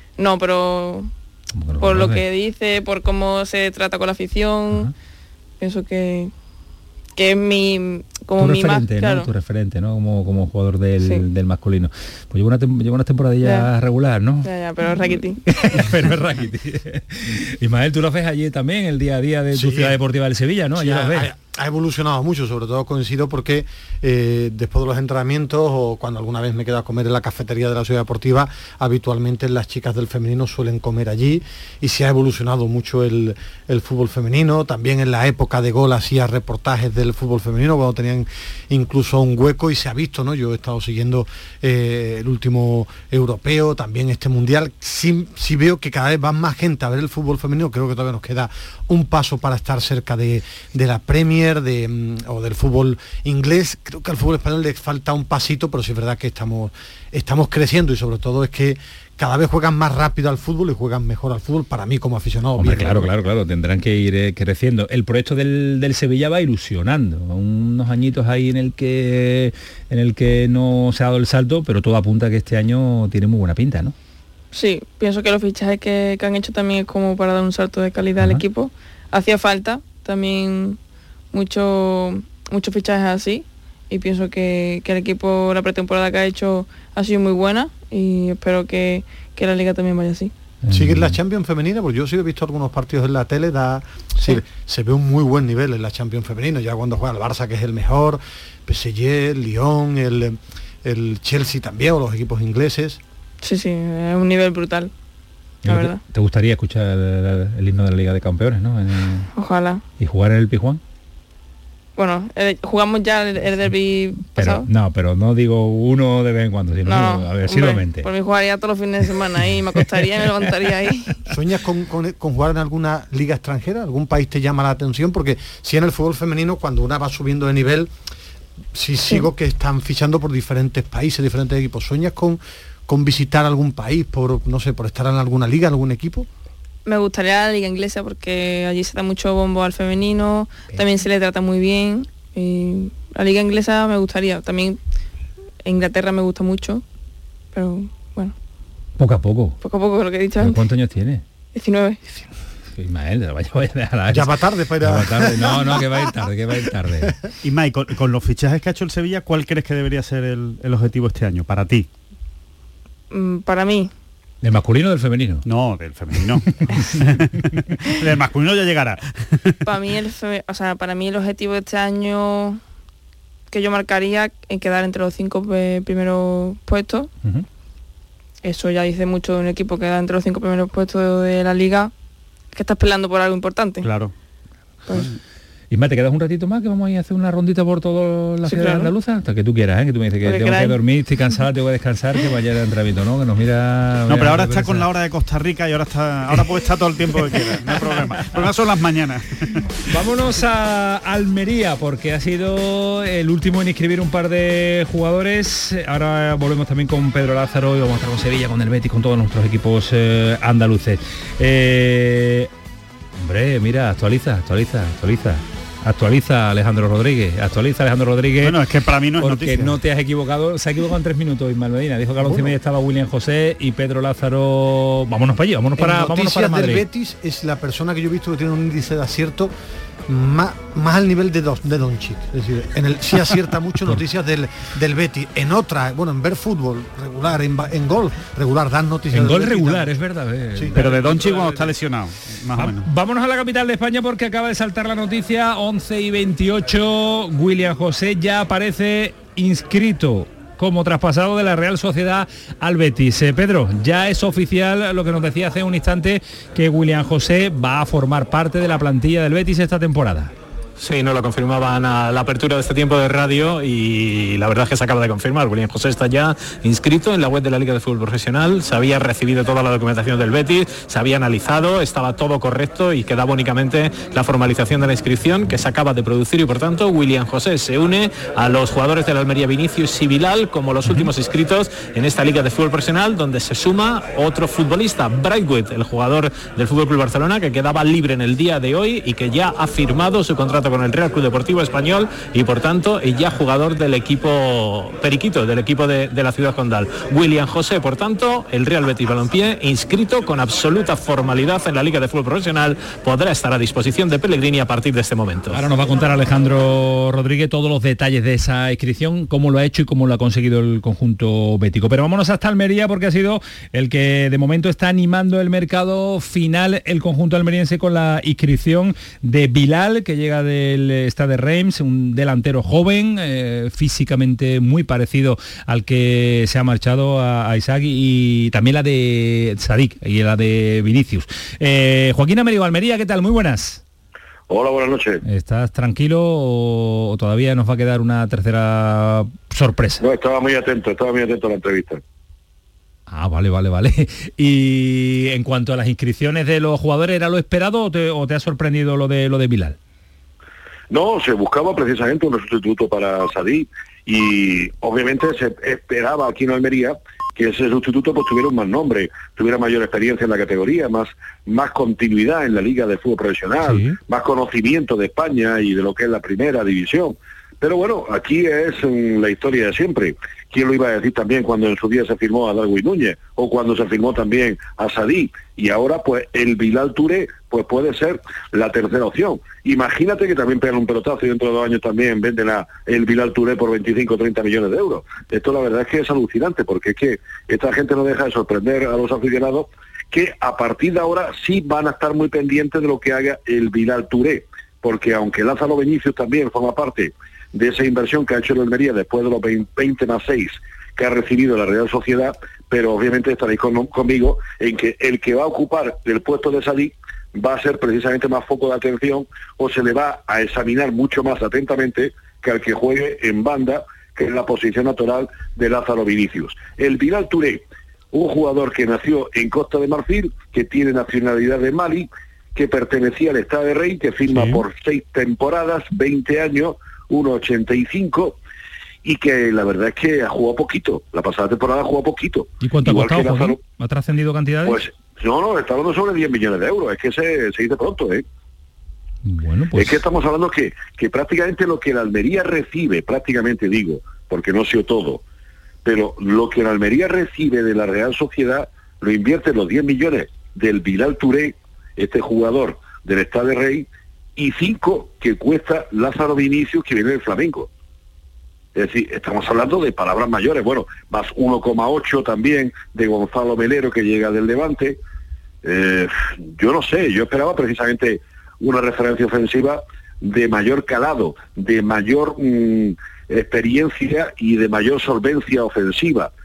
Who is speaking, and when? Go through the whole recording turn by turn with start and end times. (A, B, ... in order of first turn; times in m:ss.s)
0:00.2-0:01.1 A
0:01.5-0:02.2 B
0:01.8-0:04.9 A
0:05.6-0:06.3 A
0:07.2-0:09.3 A
0:08.4-0:21.3 B
0:11.0-0:11.2 A
0:13.4-0:13.7 A
0:14.4-0:15.4 A
0:19.5-0:20.0 C
0:20.7-1:03.1 C
1:02.6-1:13.9 B
1:14.5-1:20.8 A
1:21.3-1:30.3 A
1:30.6-1:31.2 B
1:30.7-1:43.0 C
1:43.4-1:44.9 A
1:45.6-1:49.3 B
1:45.6-1:46.0 A
1:49.4-1:49.8 A
1:50.0-1:50.8 B
1:52.0-1:54.7 A
1:54.4-1:58.1 B
1:56.9-2:01.3 A
1:59.8-2:00.7 B
2:01.3-2:07.9 C
2:08.7-2:16.3 C
2:16.9-2:24.8 A
2:25.6-2:26.8 A
2:27.5-2:28.4 A
2:29.0-2:29.6 B
2:29.6-2:30.6 A
2:30.4-2:31.2 B
2:31.5-2:32.2 A
2:32.8-2:37.1 B
2:34.1-2:36.0 C
2:37.4-2:41.9 D
2:43.1-2:43.9 A
2:44.4-2:45.4 B
2:45.4-2:49.6 D
2:49.6-2:52.6 A
2:53.5-2:57.1 A
2:58.4-3:01.9 A
3:02.5-3:03.9 A
3:03.8-3:04.1 D
3:05.7-3:14.9 B
3:08.4-3:08.9 A
3:10.2-3:10.8 A
3:14.1-3:19.6 D
3:17.4-3:18.0 B
3:19.9-3:32.5 B
3:33.2-3:38.6 B
3:38.4-3:39.8 D
3:39.2-3:46.8 B
3:45.8-3:49.5 C
3:50.1-3:59.9 C
3:59.1-4:01.7 B
4:00.7-4:02.9 D
4:02.5-4:20.3 B
4:20.8-5:05.6 E
5:05.5-5:33.8 B
5:34.5-5:35.2 F
5:35.2-5:40.0 B
5:40.0-5:42.0 F
5:43.1-5:49.8 B
5:50.9-7:08.4 F
6:03.6-6:04.0 B
7:04.3-7:04.6 B
7:09.0-7:13.6 F
7:12.6-7:14.8 B
7:14.6-7:18.2 F
7:19.2-7:20.0 B
7:19.7-7:25.2 F
7:25.8-7:37.7 F
7:38.7-7:45.0 F
7:45.6-7:56.3 F